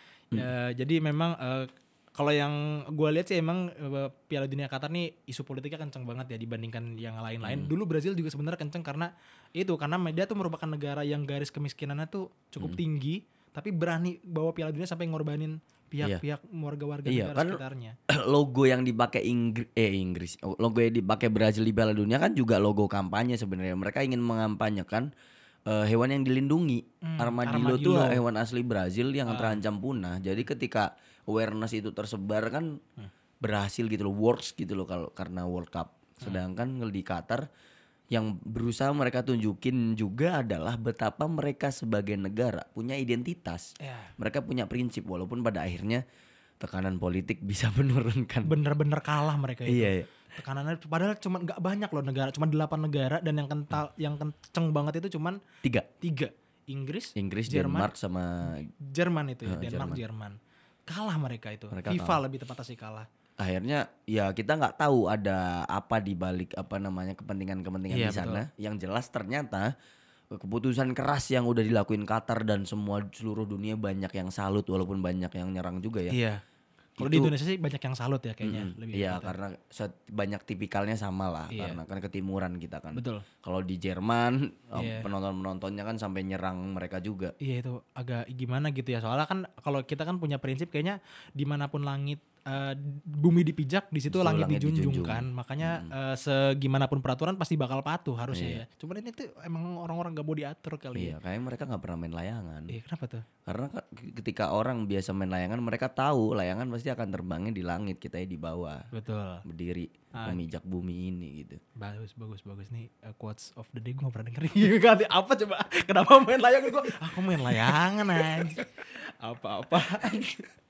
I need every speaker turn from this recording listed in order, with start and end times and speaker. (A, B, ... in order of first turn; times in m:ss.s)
0:00.3-0:18.0 A
0:07.4-0:07.7 B
0:17.0-0:25.1 B
0:25.7-0:32.8 B
0:27.0-0:28.2 A
0:29.3-0:29.6 A
0:33.4-0:37.4 B
0:38.1-0:46.0 B
0:43.8-0:44.1 A
0:46.6-0:48.5 B
0:48.4-0:55.4 A
0:49.7-0:50.1 B
0:56.0-0:57.9 A
0:57.2-0:58.7 B
0:58.4-1:00.4 A
0:59.4-1:00.0 B
1:00.9-1:03.1 A
1:01.7-1:02.2 B
1:03.4-1:09.7 B
1:07.9-1:08.4 A
1:10.3-1:16.1 B
1:16.1-1:16.4 A
1:17.0-1:17.3 B
1:17.0-1:19.3 A
1:18.4-1:27.3 B
1:21.5-1:21.8 A
1:22.9-1:23.2 A
1:24.8-1:25.1 A
1:27.4-1:41.1 A
1:34.1-1:35.9 B
1:38.3-1:38.6 B
1:41.0-1:42.7 B
1:42.7-1:43.2 A
1:43.4-1:48.9 B
1:48.9-1:49.4 A
1:49.4-1:51.6 B
1:50.2-1:50.4 A
1:51.8-1:58.6 A
1:57.4-1:58.6 B
1:59.2-2:00.5 A